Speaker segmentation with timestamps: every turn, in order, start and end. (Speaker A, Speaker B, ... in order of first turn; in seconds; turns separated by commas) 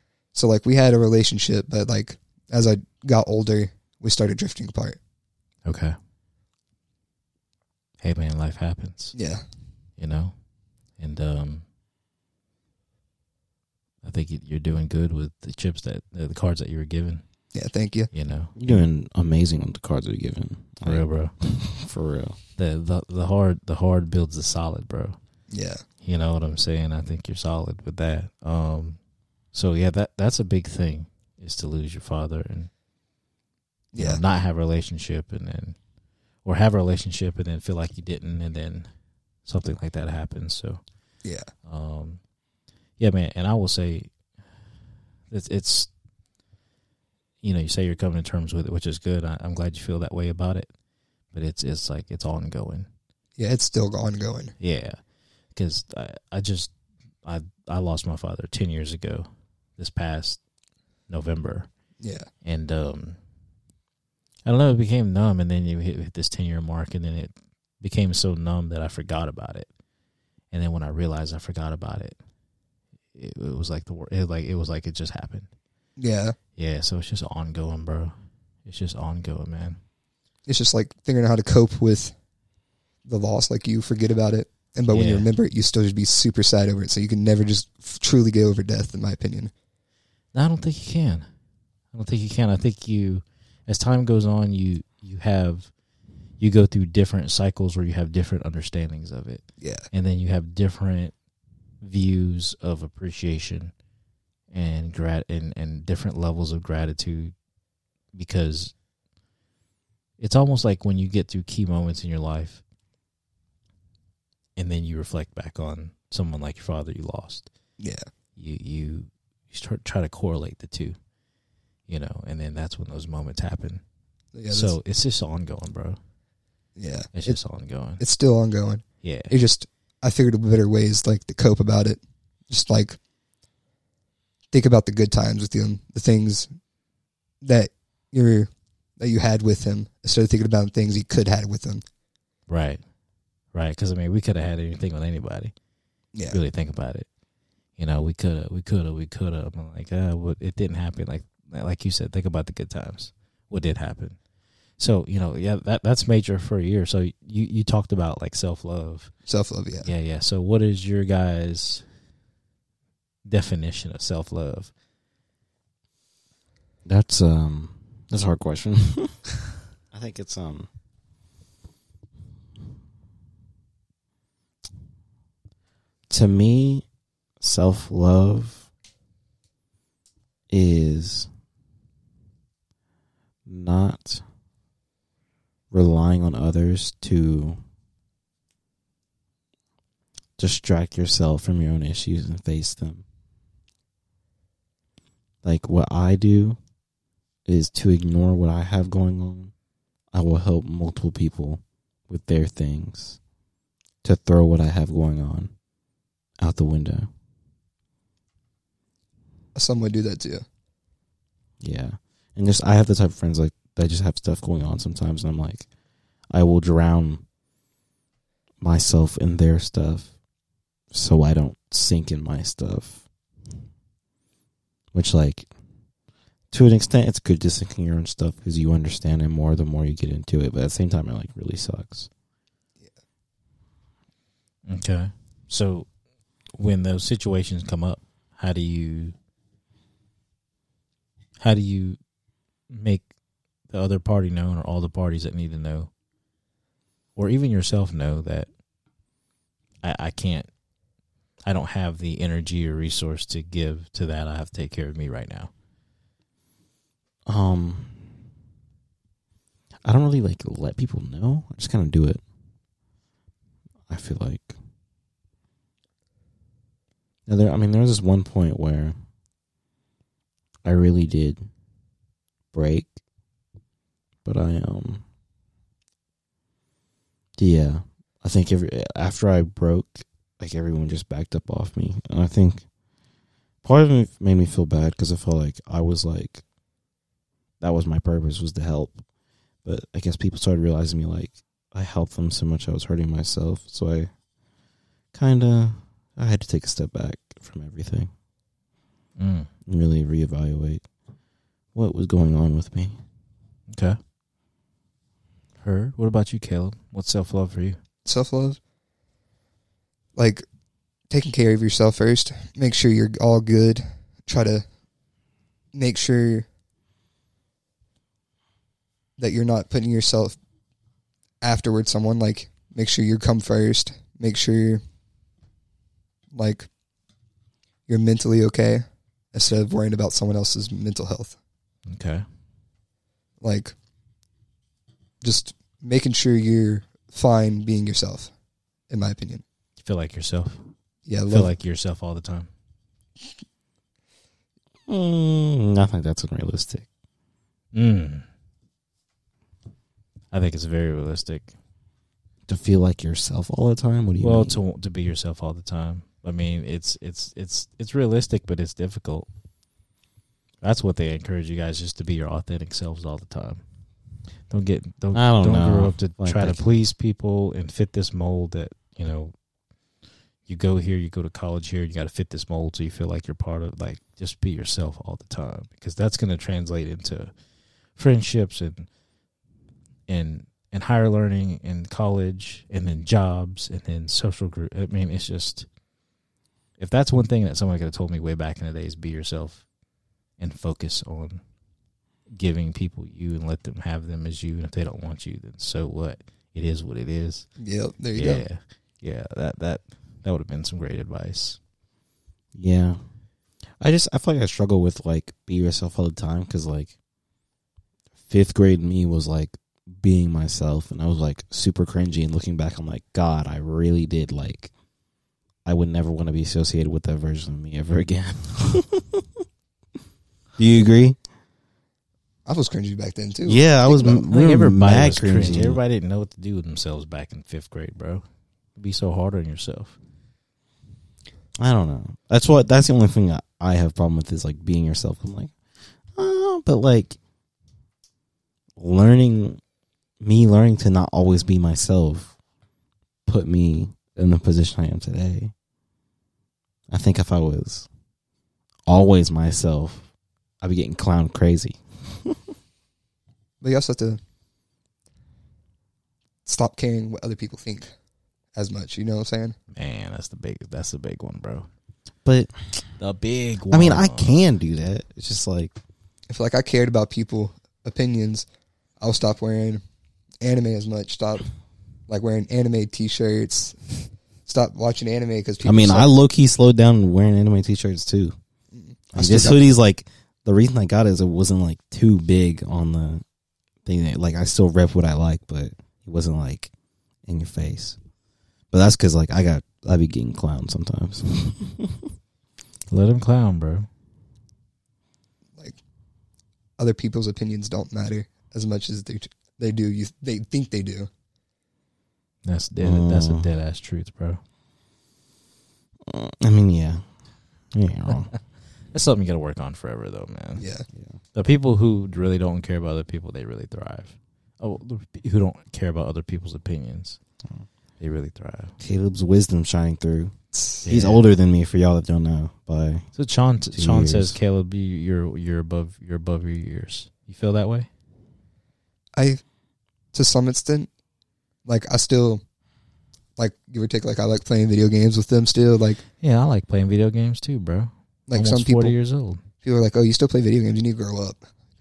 Speaker A: 0.3-5.0, Speaker B: 5.6-6.0, Speaker B: 8.0-9.1, Speaker A: 9.1-9.4, Speaker B: 10.0-10.3, Speaker B: 11.0-11.6, Speaker B: 14.0-17.2, Speaker A: 17.5-18.1, Speaker B: 18.1-18.8, Speaker C: 18.6-22.4, Speaker B: 20.8-21.3, Speaker B: 22.6-25.2, Speaker A: 25.5-25.8, Speaker B: 26.0-29.0, Speaker B: 29.5-32.7, Speaker A: 33.9-34.2, Speaker B: 34.0-35.8, Speaker B: 36.4-38.9, Speaker B: 39.4-40.8, Speaker B: 41.6-42.2, Speaker B: 43.0-44.1, Speaker B: 45.3-45.9, Speaker B: 47.4-50.7, Speaker B: 51.3-52.9, Speaker A: 53.4-54.5, Speaker B: 54.6-55.0, Speaker B: 55.5-56.7, Speaker B: 57.2-60.4, Speaker B: 61.1-61.7, Speaker A: 62.0-62.3, Speaker B: 62.4-63.2, Speaker B: 64.4-69.7, Speaker B: 70.5-72.2, Speaker B: 73.1-75.5, Speaker A: 76.0-76.3, Speaker B: 76.5-78.1, Speaker B: 78.6-79.8, Speaker A: 80.5-82.1, Speaker A: 83.0-89.5, Speaker B: 84.9-85.3, Speaker B: 90.3-91.3, Speaker B: 91.9-95.7, Speaker B: 96.4-101.1, Speaker A: 99.6-99.8, Speaker B: 101.8-103.7, Speaker B: 104.5-107.3, Speaker B: 108.1-108.7, Speaker B: 110.2-112.6, Speaker B: 114.5-117.5, Speaker A: 117.8-118.0, Speaker B: 118.4-121.0, Speaker B: 121.9-123.8, Speaker A: 124.3-124.7, Speaker B: 124.5-126.0, Speaker A: 126.8-127.4, Speaker B: 127.1-128.0, Speaker A: 128.0-133.0, Speaker B: 129.0-129.3, Speaker A: 134.5-136.5, Speaker A: 137.4-141.8, Speaker B: 142.5-142.8, Speaker B: 143.5-145.5, Speaker B: 146.3-147.1, Speaker B: 147.8-154.2, Speaker B: 154.8-159.1, Speaker A: 159.3-159.9, Speaker B: 159.8-161.8, Speaker B: 163.2-164.7, Speaker C: 166.8-169.2, Speaker C: 169.9-170.7, Speaker C: 176.1-176.8, Speaker C: 177.4-178.7, Speaker C: 180.5-181.3, Speaker C: 183.4-184.2, Speaker C: 185.7-187.6, Speaker C: 190.4-193.0, Speaker C: 195.4-196.6, Speaker C: 197.4-199.5, Speaker C: 200.1-203.2, Speaker C: 204.0-205.5, Speaker C: 206.4-207.1, Speaker A: 209.6-210.4, Speaker C: 211.6-215.7, Speaker C: 216.3-217.2, Speaker C: 218.6-220.1, Speaker C: 220.9-223.0, Speaker C: 224.9-225.5, Speaker C: 226.5-232.1, Speaker B: 234.7-235.9, Speaker B: 236.5-239.1, Speaker B: 241.4-242.0, Speaker B: 242.7-243.1, Speaker B: 243.7-245.9, Speaker B: 247.2-248.5, Speaker B: 249.8-250.5, Speaker B: 251.4-255.5, Speaker C: 257.2-258.1, Speaker C: 259.8-262.2, Speaker C: 263.9-264.5, Speaker C: 267.3-269.0, Speaker C: 270.6-271.5, Speaker C: 272.5-272.9, Speaker C: 274.2-275.0, Speaker C: 277.4-282.6, Speaker C: 283.6-286.4, Speaker C: 287.6-289.0, Speaker C: 289.6-294.1, Speaker C: 295.1-298.1, Speaker B: 299.2-299.5, Speaker C: 299.6-300.8, Speaker C: 301.7-303.0, Speaker B: 303.7-304.0, Speaker B: 305.6-307.8, Speaker A: 308.0-308.6, Speaker A: 310.1-310.4, Speaker A: 311.1-314.6, Speaker A: 315.7-316.4, Speaker A: 319.2-320.4, Speaker A: 321.4-324.8, Speaker A: 326.3-326.7, Speaker A: 327.9-331.4, Speaker B: 331.9-332.2, Speaker A: 333.4-333.7, Speaker A: 335.2-338.3, Speaker A: 338.9-339.4, Speaker B: 339.8-340.6, Speaker A: 341.1-341.5, Speaker B: 341.3-342.5, Speaker C: 344.9-346.9, Speaker B: 347.7-348.2, Speaker B: 350.3-351.5, Speaker C: 352.5-354.6, Speaker B: 354.2-359.3, Speaker B: 360.6-363.6, Speaker B: 364.5-369.3, Speaker C: 365.1-366.7, Speaker B: 370.5-377.3, Speaker B: 377.9-378.9, Speaker B: 380.1-385.7, Speaker B: 386.8-389.6, Speaker B: 390.4-391.4, Speaker B: 392.3-397.5, Speaker A: 397.6-398.4, Speaker B: 398.1-401.6, Speaker C: 402.5-403.0, Speaker C: 403.8-406.9, Speaker C: 408.2-414.7, Speaker C: 415.6-419.2, Speaker C: 420.6-421.2, Speaker A: 422.4-424.2, Speaker C: 423.4-425.8, Speaker B: 424.3-428.2, Speaker B: 428.8-429.9, Speaker C: 431.6-435.5, Speaker C: 436.1-437.2, Speaker C: 438.8-439.6, Speaker C: 440.2-442.4, Speaker C: 443.2-445.5, Speaker C: 446.9-447.9, Speaker C: 448.9-450.1, Speaker C: 450.6-452.4, Speaker A: 453.6-454.2, Speaker A: 456.4-457.9, Speaker A: 458.5-459.6, Speaker B: 459.7-461.7, Speaker C: 462.2-462.5, Speaker B: 463.0-464.4, Speaker C: 463.7-465.7, Speaker A: 466.3-468.4, Speaker A: 469.0-469.8, Speaker A: 470.4-471.5, Speaker A: 472.1-476.1, Speaker C: 475.6-478.4, Speaker A: 478.7-479.6, Speaker C: 479.1-483.2, Speaker C: 483.8-486.7, Speaker C: 487.2-488.0, Speaker C: 488.7-492.1, Speaker B: 492.9-493.9, Speaker A: 496.8-501.1, Speaker B: 502.4-504.4, Speaker C: 502.8-503.5, Speaker C: 506.1-507.1, Speaker C: 507.7-508.3, Speaker B: 508.9-510.6, Speaker A: 510.6-510.8, Speaker B: 511.3-517.2, Speaker B: 518.0-518.7, Speaker C: 518.8-520.3, Speaker A: 520.5-520.9, Speaker B: 520.9-521.2, Speaker C: 520.9-523.1, Speaker B: 523.1-527.9, Speaker C: 523.7-524.4, Speaker A: 529.1-529.4, Speaker A: 530.1-530.9, Speaker A: 531.6-532.4, Speaker A: 533.4-536.0, Speaker B: 536.2-539.4, Speaker A: 538.3-539.0, Speaker A: 539.6-541.4